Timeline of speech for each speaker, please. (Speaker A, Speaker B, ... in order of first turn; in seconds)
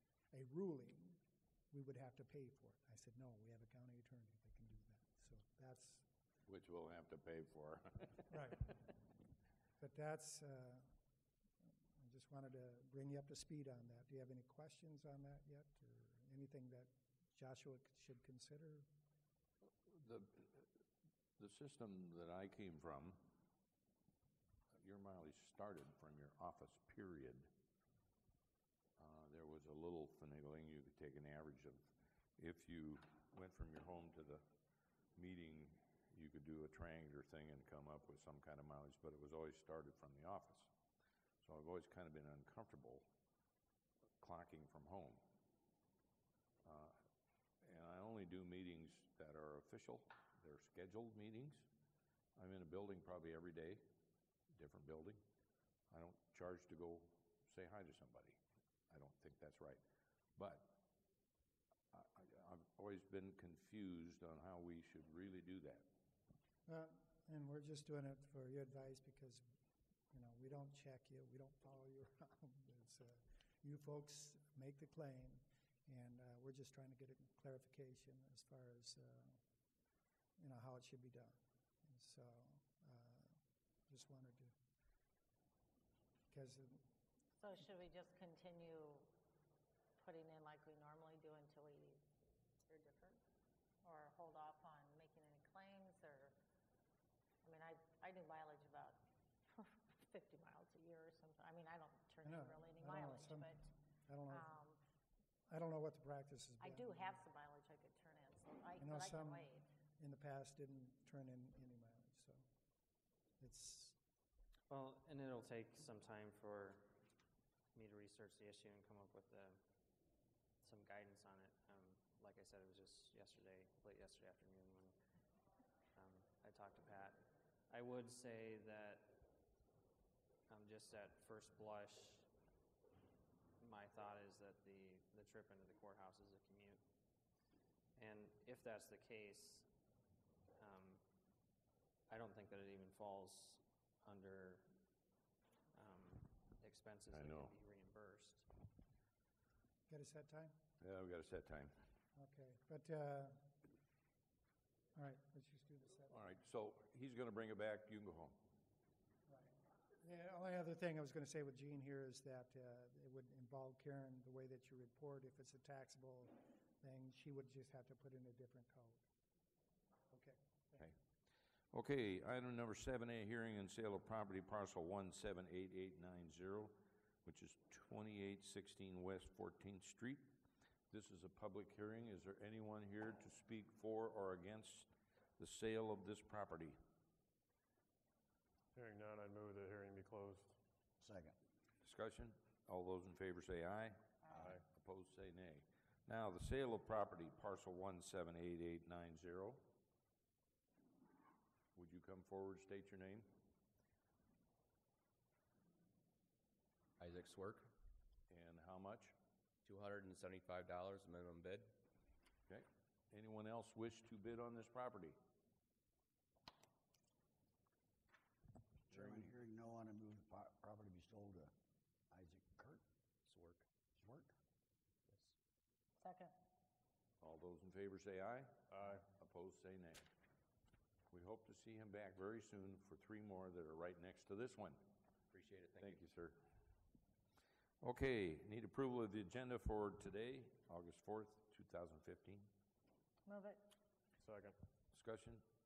Speaker A: 0.3-1.2, 1.7-6.0, 8.3-8.7, 9.8-10.9, 11.9-18.9, 66.7-69.4, 70.1-79.4, 80.4-83.4, 83.9-84.5, 86.3-86.8, 102.2-103.5, 104.1-104.5, 105.5-107.2, 108.8-112.5, 113.4-114.0, 149.9-150.5, 152.2-153.5, 154.9-156.2, 159.3-169.0, 170.1-170.9
Speaker B: 6.5-8.3, 19.8-20.7, 21.4-23.3, 24.7-27.5, 29.0-34.4, 35.1-40.7, 41.4-43.0, 44.2-45.2, 46.6-47.0, 47.6-51.7, 52.4-53.8, 54.5-55.2, 55.9-58.4, 58.9-59.8, 60.4-60.8, 61.9-65.8, 147.1-147.5, 150.8-151.7, 156.1-158.5, 171.7-180.3, 180.9-186.8, 191.8-194.0, 194.6-199.7, 201.7-203.3, 208.3-209.1, 212.5-215.2, 227.2-230.1, 231.1-234.9, 235.8-236.4, 237.8-242.5, 244.9-245.4
Speaker C: 87.4-89.1, 90.0-92.0, 92.7-93.2, 93.8-96.4, 97.4-103.7, 104.3-104.8, 106.6-109.7, 226.0-226.3
Speaker D: 114.7-117.0, 117.7-119.6, 120.6-125.0, 126.0-129.2, 130.5-132.3, 133.6-136.8, 137.9-139.7, 140.6-141.0, 142.1-144.8, 145.7-148.5
Speaker E: 188.7-190.5, 194.3-194.6, 228.7-229.0, 244.2-244.6
Speaker F: 191.0-191.4, 194.3-194.6, 218.9-221.5, 222.1-222.8, 223.9-224.3
Speaker G: 207.0-207.7, 209.6-211.7, 223.3-223.6, 235.3-236.0